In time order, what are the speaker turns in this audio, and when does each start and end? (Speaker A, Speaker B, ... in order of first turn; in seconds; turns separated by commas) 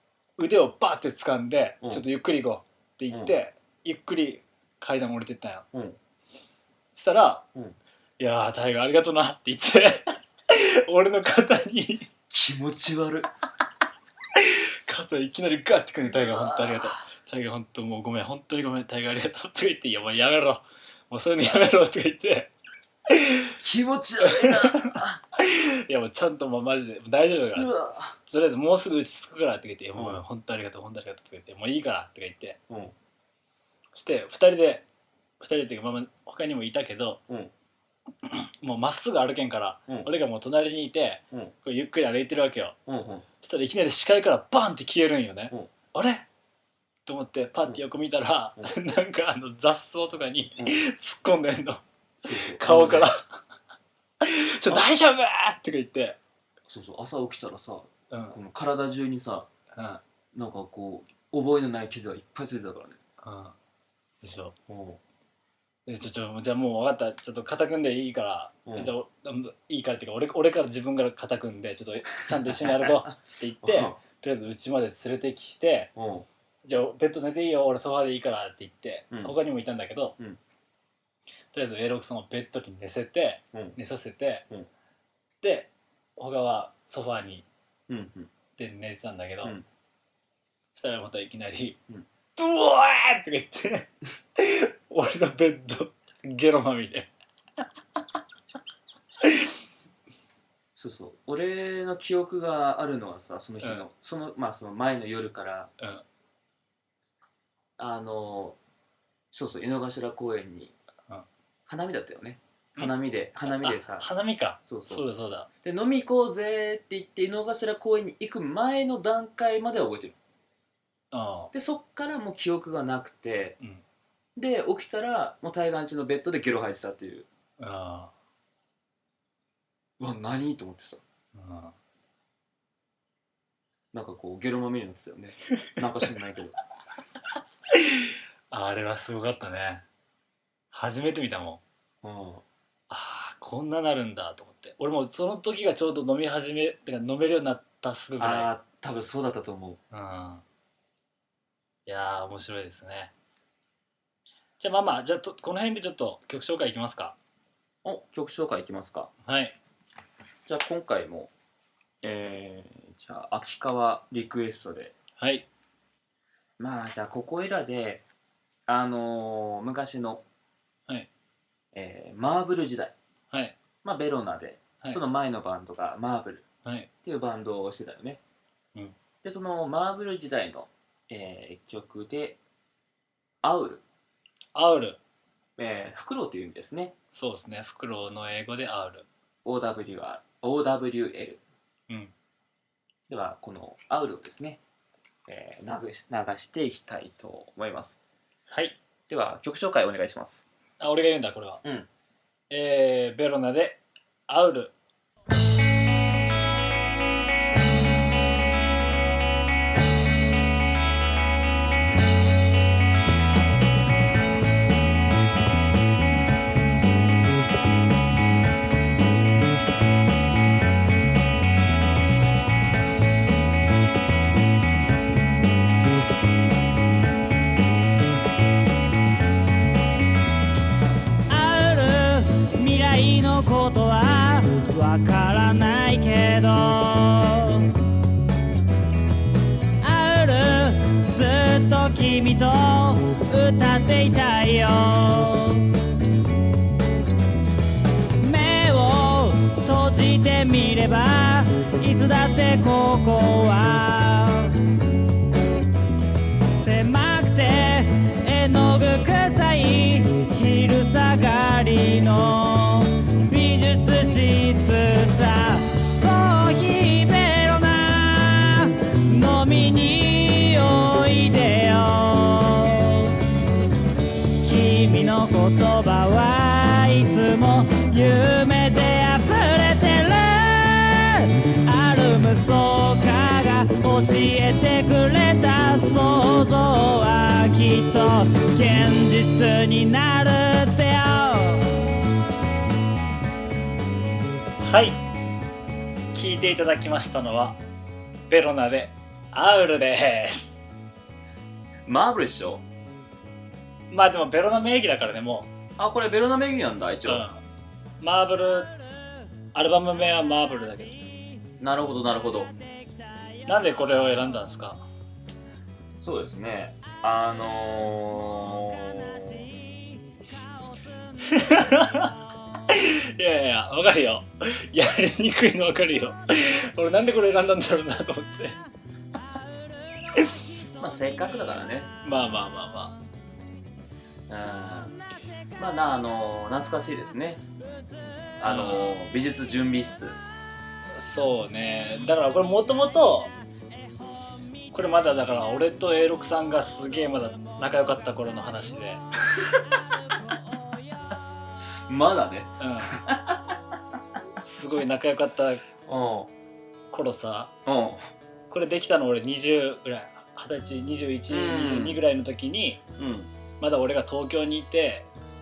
Speaker A: 0.4-5.7, Speaker B: 3.1-3.4, Speaker B: 5.7-6.0, Speaker A: 7.0-7.5, Speaker A: 8.2-12.1, Speaker B: 12.3-13.3, Speaker A: 14.3-22.5, Speaker B: 16.1-17.0, Speaker A: 23.1-23.6, Speaker B: 23.6-25.2, Speaker A: 24.2-27.7, Speaker B: 27.6-28.2, Speaker A: 28.2-32.6, Speaker B: 30.0-30.2, Speaker B: 32.7-32.9, Speaker A: 33.9-34.9, Speaker A: 35.4-37.2, Speaker A: 38.2-42.8, Speaker B: 42.9-43.3, Speaker A: 43.4-46.3, Speaker A: 47.1-53.4, Speaker B: 52.2-53.1, Speaker A: 54.2-56.2, Speaker B: 56.7-59.5, Speaker A: 59.8-60.0, Speaker B: 60.3-63.0, Speaker A: 63.2-63.5, Speaker A: 64.2-64.6, Speaker B: 64.7-65.0, Speaker A: 65.9-75.9, Speaker B: 68.7-68.9, Speaker B: 72.2-74.0, Speaker B: 76.0-76.3, Speaker A: 76.6-80.2, Speaker B: 79.1-79.4, Speaker A: 81.5-84.5, Speaker B: 83.5-83.8, Speaker A: 85.4-87.5, Speaker B: 87.9-88.3, Speaker A: 88.6-89.6, Speaker A: 90.7-91.8, Speaker A: 92.4-97.1, Speaker A: 99.2-99.5, Speaker B: 100.8-105.7, Speaker A: 105.8-106.0, Speaker B: 107.8-108.6, Speaker B: 109.3-110.8, Speaker B: 111.7-114.1, Speaker A: 112.8-115.5, Speaker B: 114.7-115.0, Speaker B: 115.6-120.2, Speaker A: 121.1-121.5, Speaker B: 121.5-123.6, Speaker B: 124.4-127.3, Speaker A: 127.6-128.1, Speaker B: 130.0-131.0, Speaker A: 131.3-131.7, Speaker B: 133.9-136.6, Speaker A: 137.7-139.8, Speaker A: 140.7-141.6, Speaker B: 142.0-142.4, Speaker A: 142.9-148.5, Speaker B: 148.2-149.8, Speaker A: 149.9-150.4, Speaker A: 151.9-153.1, Speaker A: 154.6-157.2, Speaker B: 157.8-159.1, Speaker A: 159.2-159.6, Speaker B: 160.5-161.3, Speaker B: 162.0-164.9, Speaker A: 165.2-165.5, Speaker B: 166.6-168.0, Speaker B: 168.7-170.2, Speaker B: 171.7-173.0, Speaker A: 173.3-173.6, Speaker B: 173.8-176.5, Speaker B: 177.0-178.2, Speaker B: 179.2-182.4, Speaker B: 183.4-183.8, Speaker A: 184.5-185.0, Speaker B: 185.6-186.9, Speaker A: 187.1-189.1, Speaker B: 189.4-191.4, Speaker B: 193.1-194.6, Speaker B: 195.3-198.0, Speaker A: 198.5-198.8, Speaker B: 199.1-200.4, Speaker A: 200.8-201.6, Speaker A: 202.5-204.7, Speaker C: 231.3-237.7, Speaker C: 239.8-245.7, Speaker C: 248.2-254.6, Speaker C: 256.5-273.1, Speaker C: 274.4-291.7, Speaker A: 294.6-295.0, Speaker A: 296.1-297.6, Speaker A: 298.3-300.6, Speaker B: 301.9-302.6, Speaker A: 303.9-305.5, Speaker B: 305.8-307.3, Speaker A: 307.1-307.4, Speaker A: 308.0-308.7, Speaker A: 309.5-311.0, Speaker B: 311.6-312.5, Speaker A: 313.5-314.8, Speaker B: 316.0-319.5, Speaker A: 321.2-328.6, Speaker B: 330.8-331.9, Speaker A: 332.0-333.0, Speaker B: 334.3-335.0, Speaker B: 335.6-337.4, Speaker B: 338.4-340.2, Speaker A: 338.4-339.0, Speaker A: 340.9-343.3, Speaker A: 344.7-349.0, Speaker B: 351.9-353.6, Speaker A: 352.6-353.0, Speaker A: 354.4-355.6, Speaker B: 355.9-356.3, Speaker A: 356.9-357.5, Speaker B: 357.7-358.1, Speaker A: 358.5-362.8, Speaker B: 361.3-362.0, Speaker B: 363.0-363.3, Speaker A: 363.6-365.1